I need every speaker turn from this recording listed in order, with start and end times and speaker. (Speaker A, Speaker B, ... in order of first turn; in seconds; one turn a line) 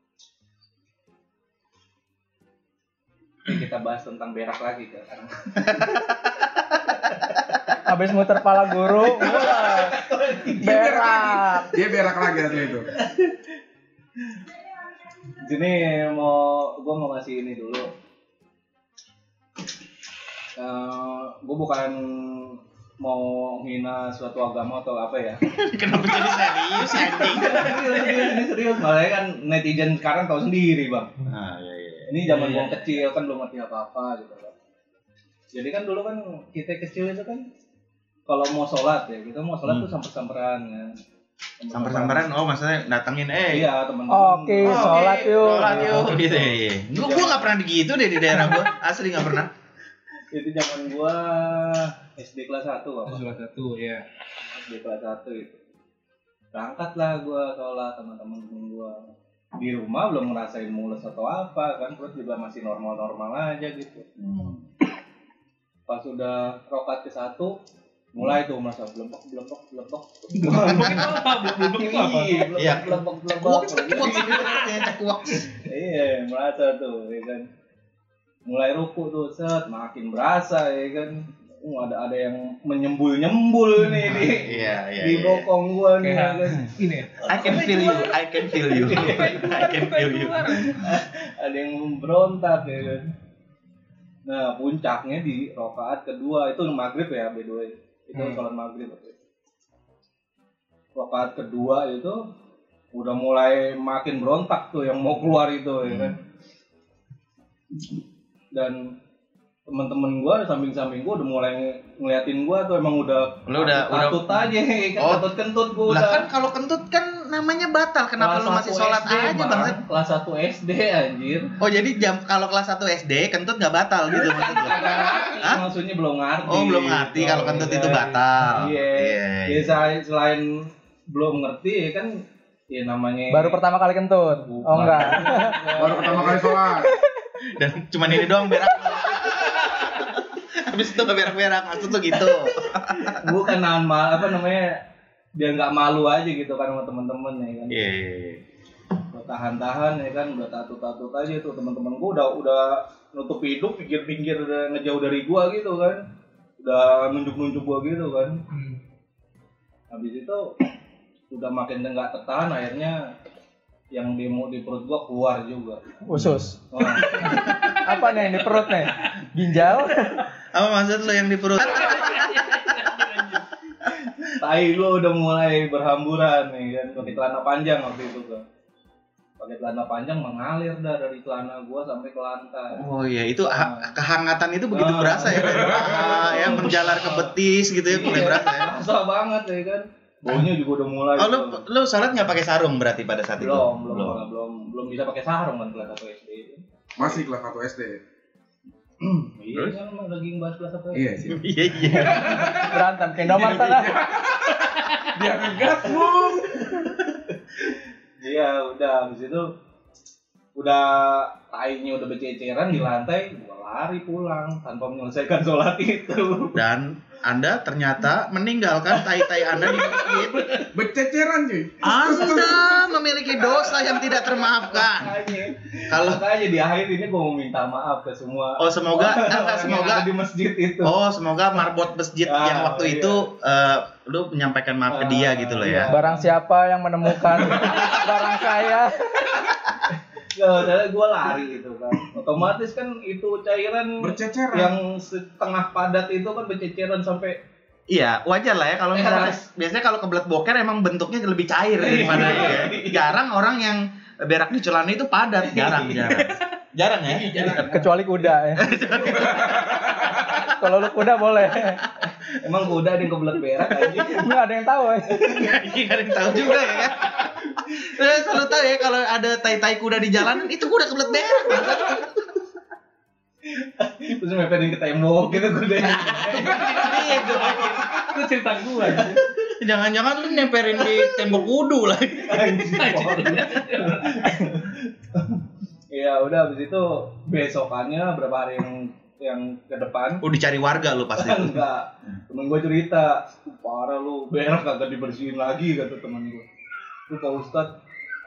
Speaker A: 3.5-5.9
Speaker B: 7.8-11.8
Speaker A: 9.0-10.9
Speaker C: 10.6-12.9
Speaker A: 12.9-13.5
Speaker A: 15.4-17.9
Speaker A: 20.6-25.6
Speaker D: 25.5-28.2
Speaker A: 26.7-31.2
Speaker D: 31.2-32.9
Speaker A: 32.1-34.5
Speaker A: 35.5-37.5
Speaker A: 38.3-41.0
Speaker A: 41.6-42.3
Speaker D: 41.7-43.7
Speaker A: 43.5-47.5
Speaker B: 44.1-46.1
Speaker D: 44.6-49.5
Speaker A: 50.3-53.3
Speaker E: 53.1-54.1
Speaker A: 54.6-55.6
Speaker A: 56.5-64.1
Speaker D: 64.2-64.7
Speaker A: 65.9-67.6
Speaker A: 68.1-74.8
Speaker E: 70.3-72.5
Speaker D: 72.5-75.5
Speaker E: 74.3-74.7
Speaker A: 75.5-77.5
Speaker A: 78.5-86.7
Speaker D: 84.0-85.5
Speaker E: 86.0-88.0
Speaker A: 87.3-88.1
Speaker D: 87.3-90.8
Speaker A: 88.6-89.6
Speaker E: 88.7-90.8
Speaker A: 90.7-93.1
Speaker A: 94.3-99.2
Speaker A: 101.0-102.3
Speaker A: 102.9-106.2
Speaker D: 105.8-106.2
Speaker A: 108.5-109.0
Speaker A: 109.7-116.3
Speaker D: 113.5-114.4
Speaker D: 115.0-115.3
Speaker D: 115.9-119.8
Speaker A: 118.2-121.5
Speaker D: 121.6-125.6
Speaker A: 124.1-133.6
Speaker D: 126.5-129.9
Speaker B: 133.3-135.9
Speaker A: 134.4-136.6
Speaker C: 135.8-136.9
Speaker D: 137.5-143.4
Speaker A: 142.9-144.8
Speaker A: 145.4-147.8
Speaker D: 147.7-148.4
Speaker A: 149.1-156.0
Speaker A: 156.6-158.4
Speaker E: 158.5-158.8
Speaker A: 159.9-160.5
Speaker A: 161.3-163.1
Speaker A: 163.9-165.8
Speaker B: 166.1-166.6
Speaker D: 166.2-166.5
Speaker A: 166.7-167.7
Speaker E: 167.2-167.5
Speaker B: 167.2-170.3
Speaker D: 167.3-167.8
Speaker D: 170.5-173.0
Speaker E: 171.9-173.3
Speaker A: 174.4-178.5
Speaker A: 179.4-182.9
Speaker D: 182.8-188.7
Speaker A: 183.5-183.9
Speaker A: 184.7-187.3
Speaker C: 185.5-186.0
Speaker A: 187.9-191.6
Speaker D: 191.2-194.2
Speaker A: 193.4-197.2
Speaker C: 197.0-198.0
Speaker A: 199.0-202.6
Speaker C: 200.9-206.9
Speaker D: 201.3-202.6
Speaker B: 202.5-204.1
Speaker A: 203.4-203.8
Speaker E: 204.7-205.1
Speaker A: 205.2-209.5
Speaker A: 210.6-216.6
Speaker D: 216.5-220.5
Speaker A: 219.1-220.7
Speaker C: 220.7-222.9
Speaker D: 221.8-225.2
Speaker A: 223.8-230.9
Speaker D: 225.9-226.3
Speaker D: 228.6-230.1
Speaker D: 230.8-236.0
Speaker A: 232.2-233.3
Speaker A: 234.9-236.3
Speaker B: 235.9-239.3
Speaker A: 237.2-238.1
Speaker A: 239.9-247.4
Speaker C: 244.0-244.8
Speaker D: 247.9-257.8
Speaker A: 248.9-249.4
Speaker A: 251.8-253.2
Speaker A: 255.5-256.3
Speaker A: 257.1-258.0
Speaker B: 257.6-258.7
Speaker D: 258.6-260.5
Speaker A: 258.7-260.2
Speaker B: 260.5-261.8
Speaker A: 261.7-264.3
Speaker B: 264.0-265.2
Speaker A: 265.2-265.7
Speaker D: 265.3-267.1
Speaker A: 266.4-267.4
Speaker D: 267.6-272.3
Speaker A: 273.5-278.1
Speaker E: 276.1-279.2
Speaker D: 276.5-277.9
Speaker A: 278.6-279.5
Speaker D: 279.6-282.9
Speaker A: 282.1-290.2
Speaker E: 282.7-284.4
Speaker D: 290.2-291.6
Speaker A: 291.1-296.5
Speaker A: 297.1-297.8